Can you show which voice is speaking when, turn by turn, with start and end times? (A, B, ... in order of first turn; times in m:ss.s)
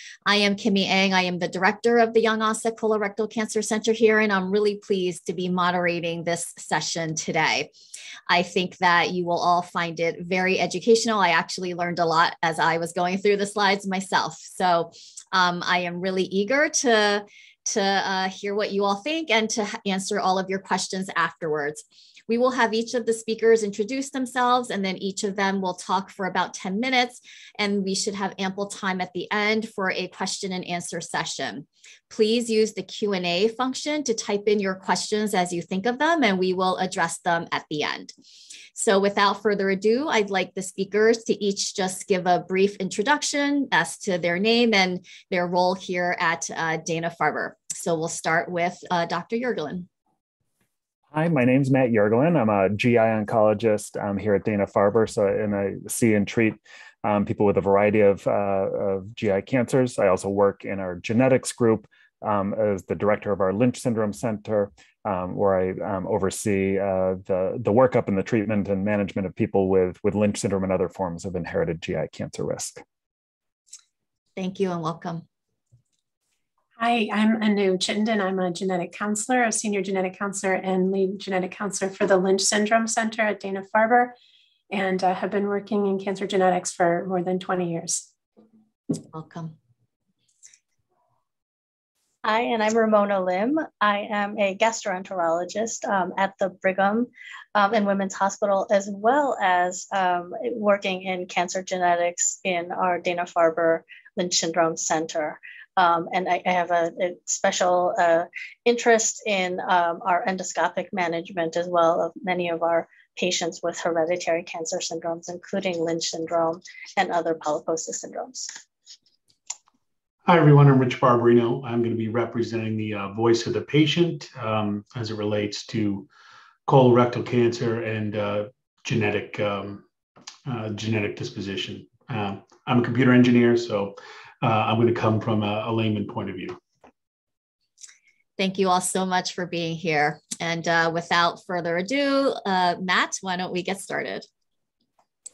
0:00.2-0:07.7 A
0:08.3-0:38.1 A
0:38.7-0:49.9 A
0:51.1-1:12.8 B
1:14.4-1:15.2 A
1:16.8-1:24.1 C
1:24.7-1:28.0 C
1:29.0-1:29.5 A
1:32.2-1:58.5 D
2:00.2-2:06.1 E
2:06.6-2:09.8 E
2:10.4-2:16.6 E
2:18.4-2:24.2 A